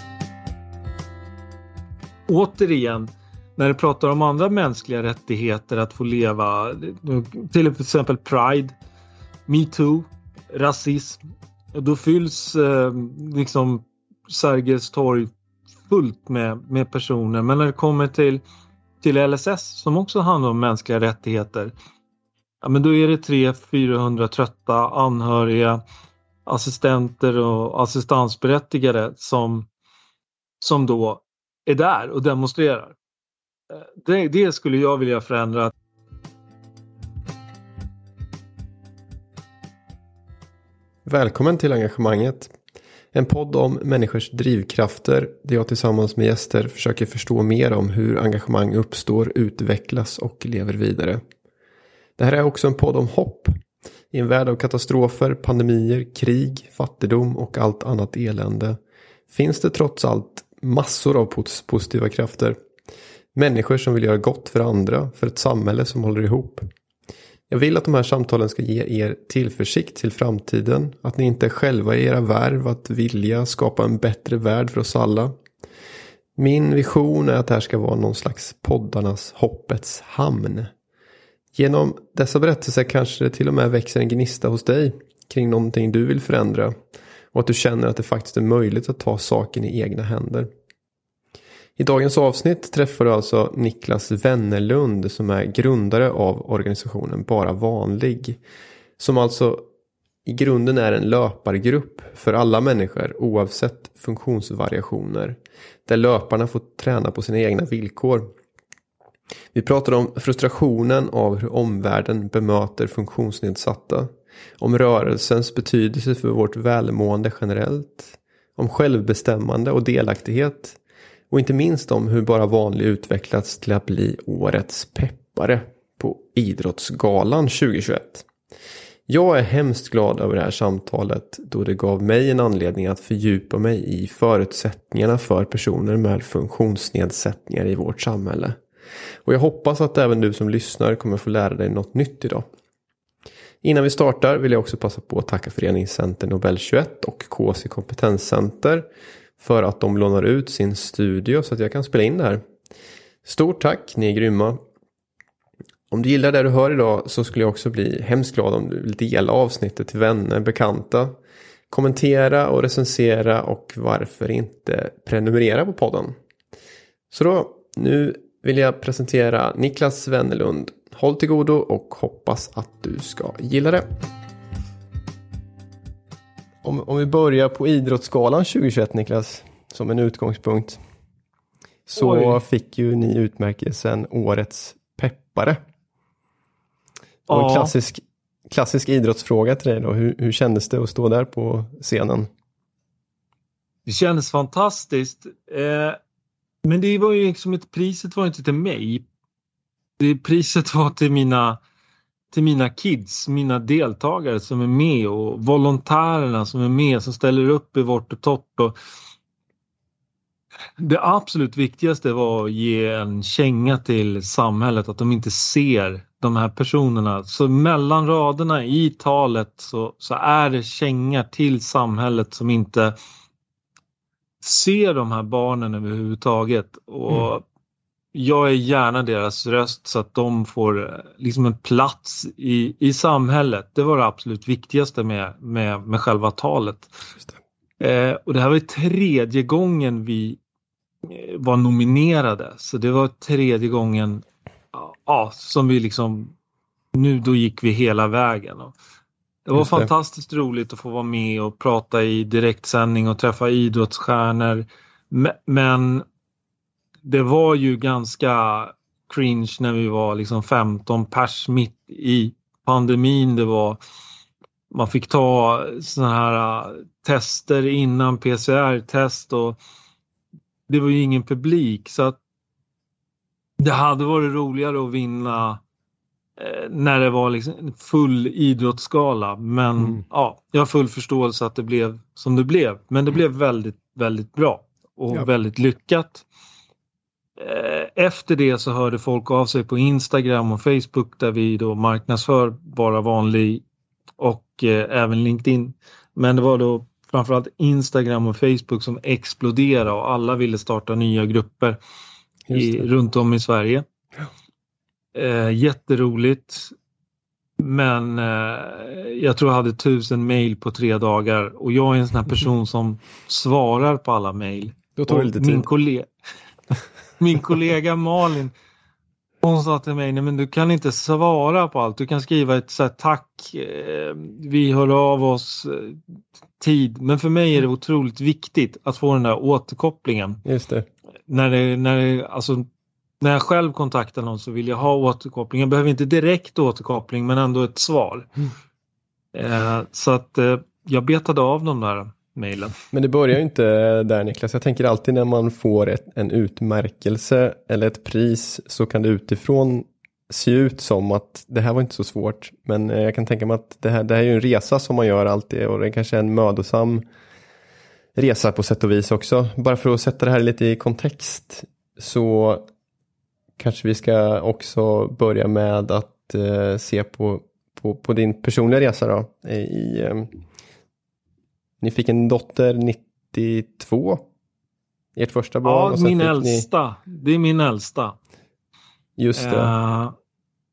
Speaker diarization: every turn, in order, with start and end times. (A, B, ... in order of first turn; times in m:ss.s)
0:02.3-0:08.8 A
0:09.5-0:11.2 A
0:11.7-0:15.3 A
0:15.9-0:18.4 A
0:19.0-0:21.7 A
0:22.6-0:25.8 A
0:26.5-0:29.7 A
0:30.6-0:33.0 A
0:33.7-0:35.7 A
0:41.1-0:42.5 B
0:43.1-0:51.2 B
0:52.2-0:53.6 B
0:54.1-0:58.8 B
0:59.3-1:02.6 B
1:03.4-1:06.7 B
1:07.5-1:15.3 B
1:16.4-1:20.7 B
1:21.5-1:26.8 B
1:27.3-1:30.5 B
1:31.8-1:38.4 B
1:39.0-1:39.6 B
1:40.3-1:48.3 B
1:49.5-2:00.8 B
2:01.3-2:08.3 B
2:09.1-2:18.6 B
2:19.2-2:22.5 B
2:23.6-2:28.8 B
2:29.4-2:32.4 B
2:33.2-2:34.6 B
2:35.9-2:41.2 B
2:41.7-2:46.2 B
2:47.1-2:53.9 B
2:56.6-3:00.8 B
3:01.9-3:05.6 B
3:02.0-3:02.4 A
3:07.3-3:07.7 A
3:07.3-3:12.3 B
3:13.9-3:16.0 A
3:16.6-3:19.0 A
3:20.0-3:21.6 A
3:22.3-3:28.8 A
3:30.8-3:42.9 A
3:44.4-3:47.4 A
3:48.1-3:56.9 A
3:57.8-4:00.4 A
4:01.0-4:06.3 A
4:06.9-4:08.7 A
4:09.5-4:16.0 A
4:09.6-4:09.9 B
4:17.0-4:23.8 A
4:24.7-4:29.6 A
4:30.7-4:32.2 A
4:33.6-4:35.6 A
4:36.4-4:46.2 A
4:47.4-4:53.6 A
4:54.2-5:01.8 A
5:02.5-5:02.8 B
5:02.5-5:03.8 A
5:05.1-5:06.7 A
5:07.6-5:16.1 A
5:15.0-5:15.7 B
5:17.2-5:18.5 A
5:19.4-5:26.0 A
5:26.6-5:30.4 A
5:30.4-5:30.9 B
5:31.3-5:32.7 A
5:33.2-5:38.3 A
5:39.3-5:42.8 A
5:42.9-5:57.0 B
5:58.2-6:02.7 B
6:03.6-6:10.4 B
6:11.8-6:14.2 B
6:15.2-6:16.7 B
6:15.6-6:18.2 A
6:19.2-6:19.7 B
6:19.4-6:20.1 A